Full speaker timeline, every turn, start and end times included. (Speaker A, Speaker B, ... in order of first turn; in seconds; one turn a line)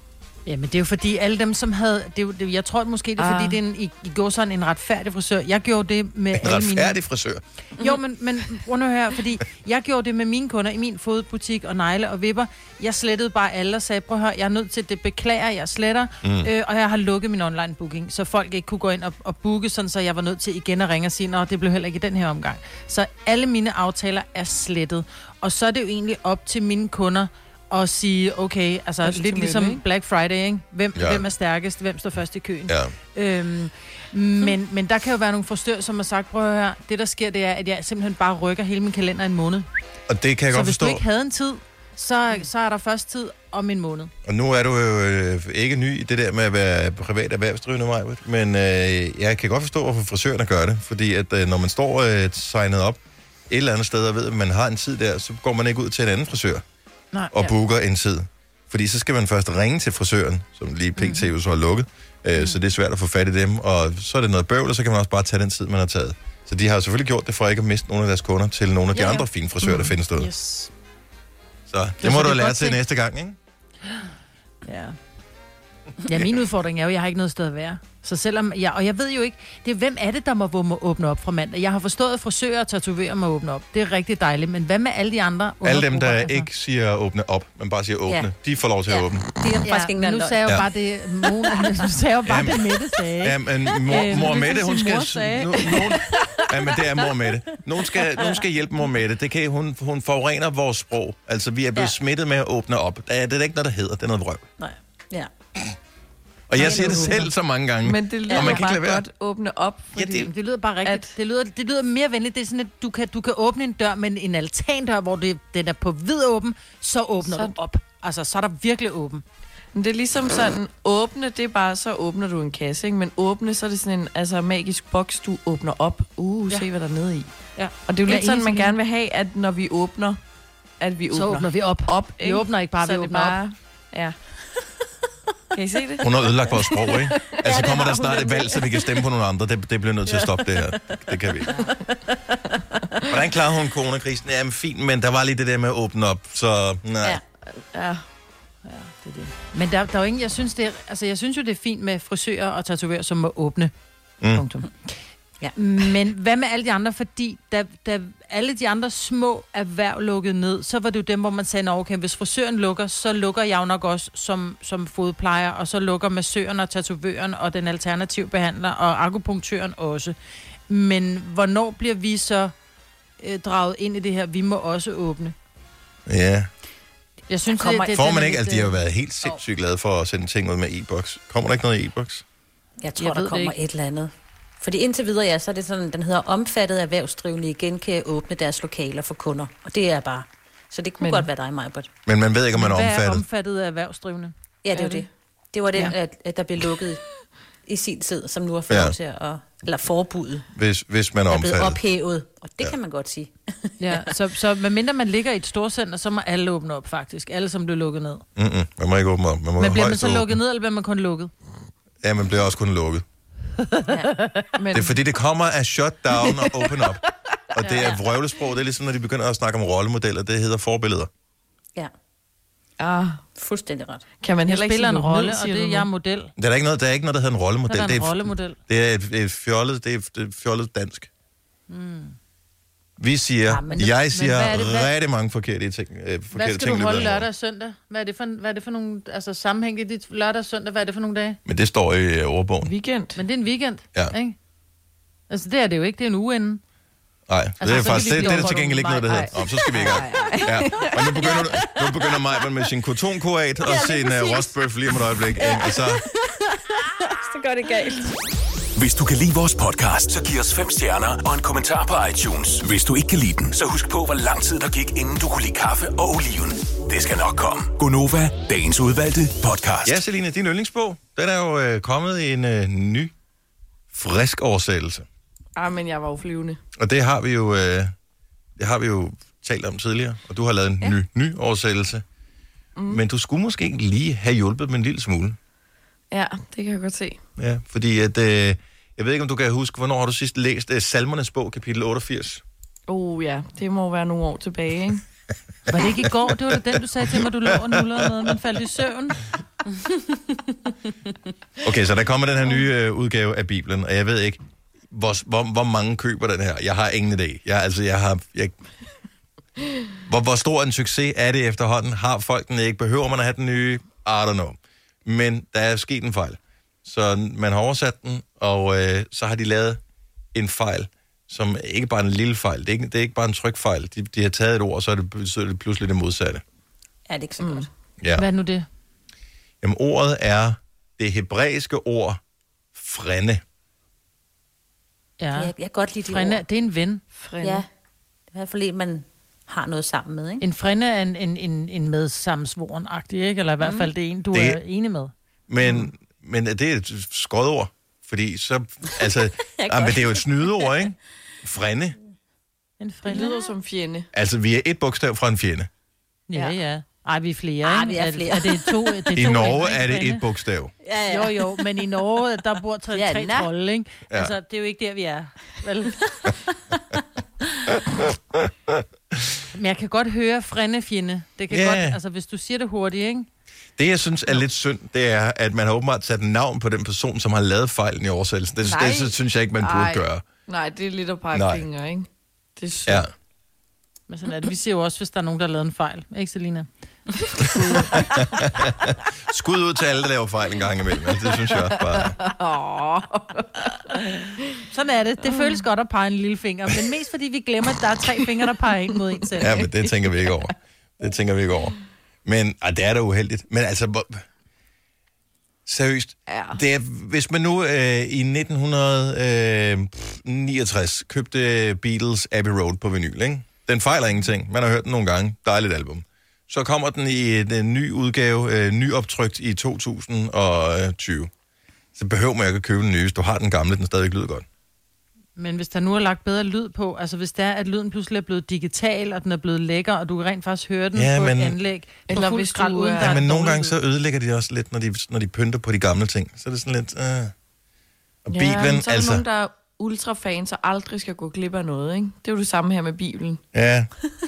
Speaker A: 0.5-7.0
Speaker B: 3.2-3.6
Speaker C: 6.3-7.4
Speaker A: 7.8-39.6
Speaker C: 16.2-16.5
Speaker B: 29.0-29.8
Speaker C: 30.9-31.2
Speaker C: 32.7-32.9
Speaker C: 40.1-41.0
Speaker A: 40.5-44.1
Speaker C: 44.2-56.6
Speaker A: 57.1-57.4
Speaker C: 57.3-70.3
Speaker A: 61.0-61.3
Speaker B: 69.6-69.9
Speaker A: 70.1-70.7
Speaker C: 71.7-73.4
Speaker A: 72.0-72.7
Speaker A: 74.6-74.9
Speaker A: 76.0-86.5
Speaker C: 85.6-89.2
Speaker D: 88.9-90.4
Speaker A: 89.6-95.8
Speaker C: 92.2-92.7
Speaker C: 93.2-104.5
Speaker D: 104.6-105.3
Speaker C: 106.5-109.0
Speaker D: 106.5-107.2
Speaker B: 106.6-107.2
Speaker B: 107.8-110.3
Speaker D: 108.3-108.6
Speaker C: 109.9-110.3
Speaker A: 110.2-119.2
Speaker B: 110.8-111.1
Speaker B: 117.2-117.5
Speaker B: 119.7-127.3
Speaker A: 127.6-128.7
Speaker B: 127.8-130.2
Speaker B: 130.8-134.2
Speaker A: 131.1-133.4
Speaker B: 135.5-136.1
Speaker C: 136.0-141.5
Speaker B: 136.8-137.8
Speaker D: 137.4-138.6
Speaker D: 141.6-142.8
Speaker C: 143.1-147.2
Speaker B: 147.5-148.0
Speaker A: 148.6-153.7
Speaker A: 154.3-154.7
Speaker A: 155.6-170.1
Speaker A: 170.7-172.5
Speaker A: 173.2-175.3
Speaker C: 176.1-176.5
Speaker A: 177.3-178.8
Speaker D: 177.5-177.9
Speaker C: 177.8-182.2
Speaker D: 182.8-191.9
Speaker A: 183.0-183.6
Speaker B: 191.0-191.3
Speaker C: 192.1-193.2
Speaker A: 192.5-194.3
Speaker D: 194.6-197.0
Speaker B: 194.7-195.0
Speaker D: 197.7-200.5
Speaker C: 198.7-198.9
Speaker C: 200.5-201.8
Speaker D: 201.3-204.1
Speaker A: 203.8-208.2
Speaker C: 208.3-210.3
Speaker A: 209.6-211.3
Speaker C: 212.0-213.0
Speaker A: 213.7-214.4
Speaker B: 214.6-215.0
Speaker C: 214.7-217.0
Speaker B: 216.2-217.0
Speaker C: 217.5-221.1
Speaker A: 217.6-218.0
Speaker B: 222.8-223.2
Speaker D: 223.4-224.1
Speaker B: 224.2-225.9
Speaker A: 224.5-226.3
Speaker C: 226.4-231.1
Speaker A: 227.7-228.6
Speaker A: 231.7-232.2
Speaker C: 233.0-237.2
Speaker D: 233.5-233.9
Speaker A: 233.8-234.9
Speaker A: 236.3-241.4
Speaker C: 241.4-242.7
Speaker B: 242.6-243.2
Speaker A: 243.2-244.3
Speaker A: 245.3-246.6
Speaker C: 247.3-256.0
Speaker A: 247.6-249.3
Speaker B: 247.9-251.4
Speaker D: 253.7-254.4
Speaker D: 255.4-255.8
Speaker D: 257.0-258.1
Speaker E: 258.8-270.0
Speaker C: 269.8-273.1
Speaker C: 273.9-275.1
Speaker B: 275.6-276.6
Speaker C: 276.8-277.9
Speaker C: 278.6-282.0
Speaker B: 282.8-283.0
Speaker C: 282.9-285.4
Speaker B: 286.1-287.2
Speaker C: 287.4-292.4
Speaker B: 292.9-295.0
Speaker A: 295.7-299.2
Speaker C: 297.1-298.3
Speaker C: 301.6-304.4
Speaker C: 304.9-308.5
Speaker C: 310.1-319.8
Speaker C: 320.3-326.4
Speaker D: 327.1-327.7
Speaker B: 327.4-327.7
Speaker C: 328.0-328.2
Speaker A: 328.1-328.6
Speaker C: 329.6-332.2
Speaker C: 332.7-333.4
Speaker A: 335.2-335.5
Speaker D: 335.3-336.4
Speaker A: 336.0-337.0
Speaker B: 337.1-337.6
Speaker D: 338.3-340.4
Speaker A: 340.4-345.1
Speaker D: 343.6-343.9
Speaker C: 344.3-344.6
Speaker C: 345.5-352.0
Speaker D: 349.6-350.7
Speaker A: 352.8-353.3
Speaker B: 353.1-354.1
Speaker C: 354.1-355.7
Speaker A: 356.3-360.2
Speaker D: 357.6-359.3
Speaker C: 359.1-360.7
Speaker D: 360.8-361.5
Speaker A: 361.1-366.0
Speaker D: 362.9-363.5
Speaker C: 367.9-369.4
Speaker A: 369.5-373.3
Speaker C: 371.5-372.0
Speaker C: 373.8-380.2
Speaker B: 378.6-383.1
Speaker C: 381.3-381.6
Speaker A: 384.1-386.7
Speaker B: 387.4-388.2
Speaker C: 388.0-392.2
Speaker B: 391.4-394.0
Speaker A: 394.7-399.6
Speaker B: 395.2-395.6
Speaker C: 399.4-404.2
Speaker B: 399.4-400.5
Speaker C: 405.6-421.3
Speaker B: 406.3-406.6
Speaker C: 421.9-424.4
Speaker A: 425.4-433.7
Speaker C: 430.9-431.6
Speaker B: 432.1-433.3
Speaker C: 433.0-437.3
Speaker C: 438.2-439.2
Speaker B: 438.3-443.4
Speaker C: 443.5-443.9